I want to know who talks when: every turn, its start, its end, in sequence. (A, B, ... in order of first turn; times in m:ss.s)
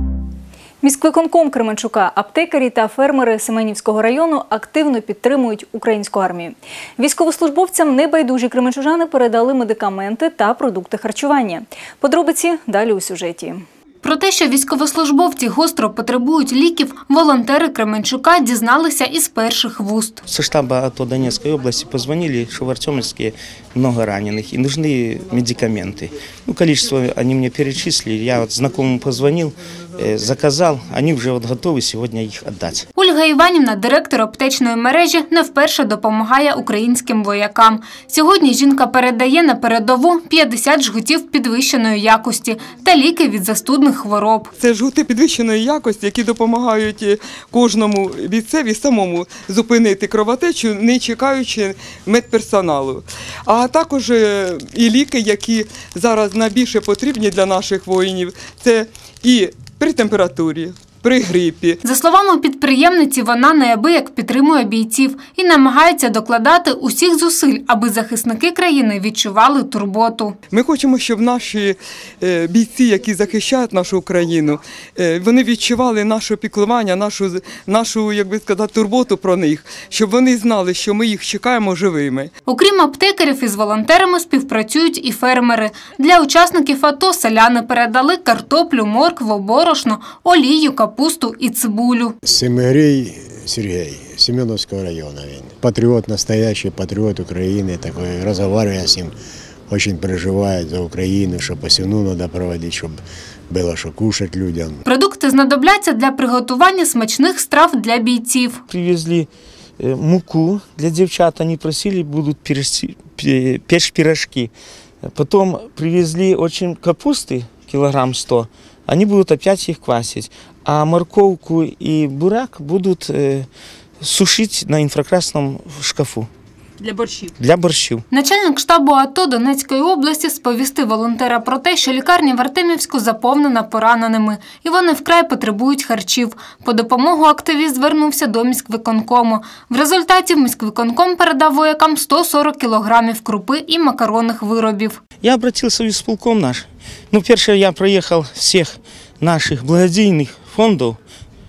0:00.8-0:13.6 A
0:14.0-0:20.2 B
0:20.2-0:32.9 C
0:33.0-0:44.5 B
0:44.6-1:01.8 D
1:01.8-1:10.4 B
1:10.5-1:22.3 D
1:22.5-1:32.2 B
1:32.2-1:39.1 E
1:39.7-1:44.8 E
1:44.8-1:48.6 B
1:48.7-1:49.3 C
1:49.8-1:54.5 C
1:55.0-2:03.5 C
2:04.0-2:06.3 C
2:07.3-2:08.0 C
2:08.1-2:25.0 B
2:25.2-2:31.0 C